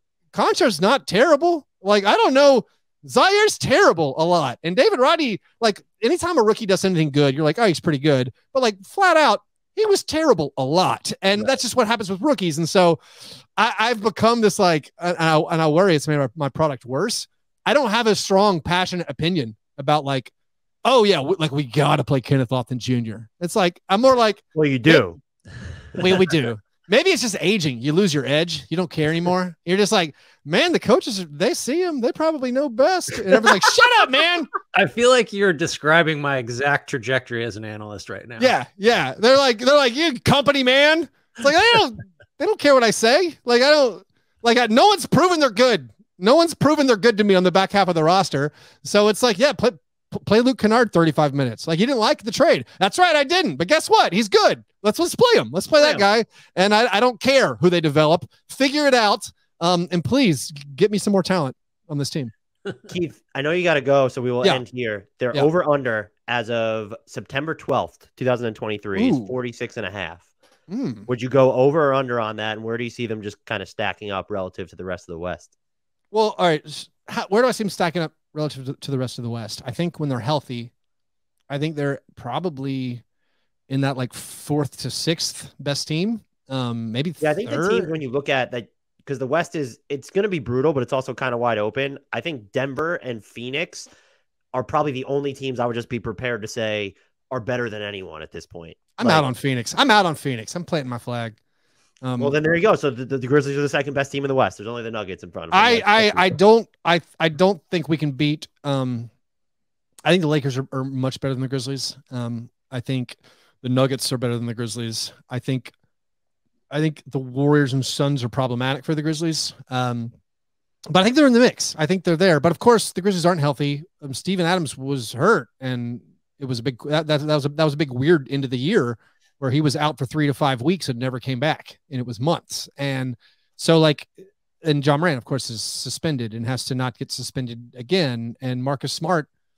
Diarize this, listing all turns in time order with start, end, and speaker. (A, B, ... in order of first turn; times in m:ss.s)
0:00.3-0:20.3 A
0:20.8-0:25.0 A
0:24.5-0:25.2 B
0:25.9-0:34.5 A
0:34.7-0:38.5 C
0:38.4-1:02.3 A
1:02.9-1:10.2 B
1:09.0-1:09.3 A
1:10.7-1:11.1 A
1:11.1-1:15.5 B
1:16.1-1:20.7 A
1:21.5-1:23.0 A
1:23.7-1:27.9 A
1:27.2-1:33.9 B
1:34.5-1:39.3 B
1:39.0-1:41.4 A
1:42.0-1:42.3 A
1:42.2-1:46.4 B
1:45.5-1:49.1 A
1:50.0-1:55.7 A
1:56.7-2:00.1 A
2:00.9-2:19.3 A